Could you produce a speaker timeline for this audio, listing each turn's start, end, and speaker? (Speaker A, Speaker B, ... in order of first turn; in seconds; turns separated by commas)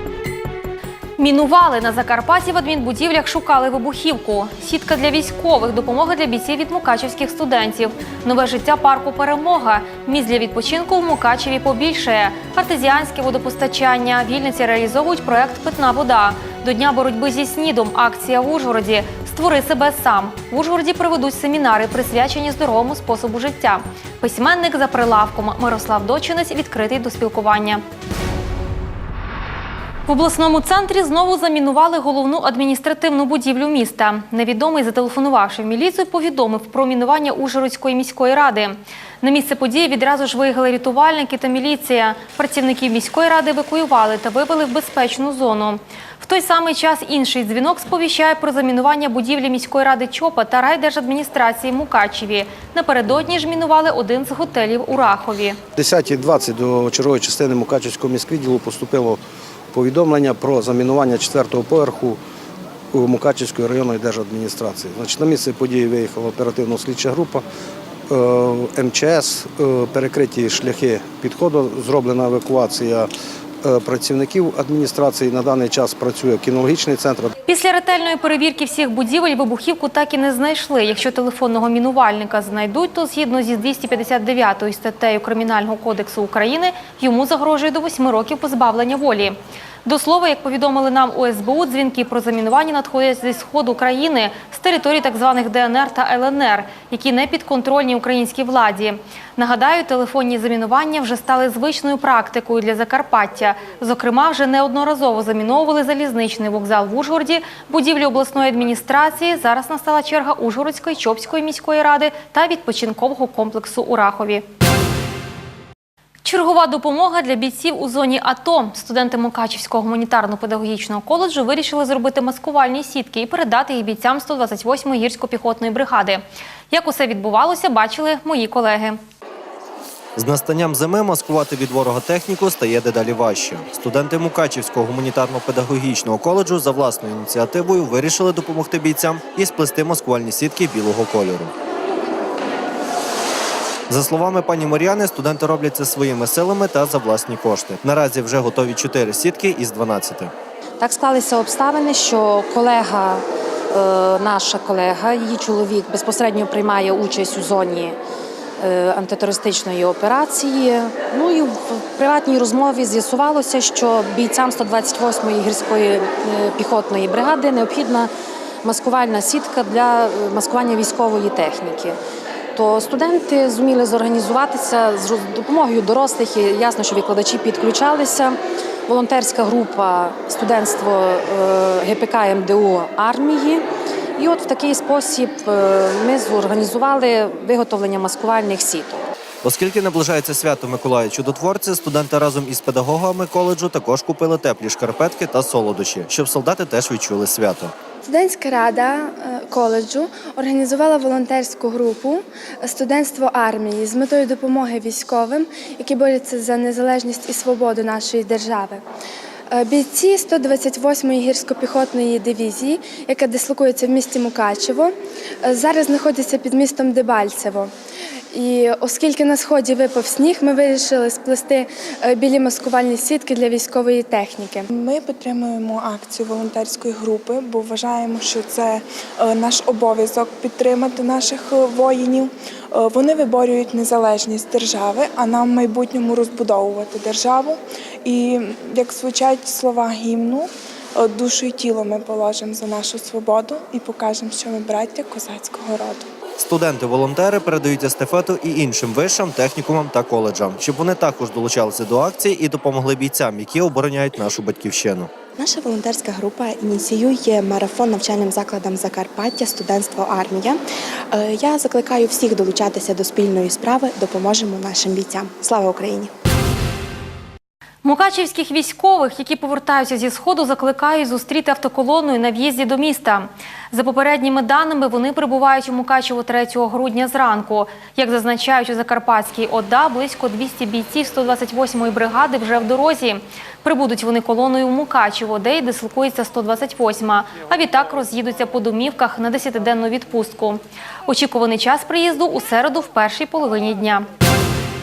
Speaker A: 1.2-27.8, Speaker A: 30.1-55.6, Speaker B: 55.8-59.2, Speaker B: 59.7-62.2, Speaker B: 62.9-67.4, Speaker B: 68.1-73.1, Speaker B: 73.6-77.3, Speaker A: 77.5-114.4, Speaker A: 116.2-129.0, Speaker C: 130.2-141.5, Speaker C: 143.9-150.3, Speaker D: 150.8-157.9, Speaker D: 158.6-168.1, Speaker D: 168.6-171.9, Speaker D: 172.6-178.4, Speaker D: 178.9-183.6, Speaker D: 184.2-189.0, Speaker C: 189.4-197.7, Speaker E: 198.0-208.8, Speaker E: 209.5-217.7, Speaker E: 218.3-224.7, Speaker F: 224.7-246.1, Speaker C: 246.4-255.1, Speaker G: 255.4-260.6, Speaker G: 261.1-266.1, Speaker A: 267.8-294.1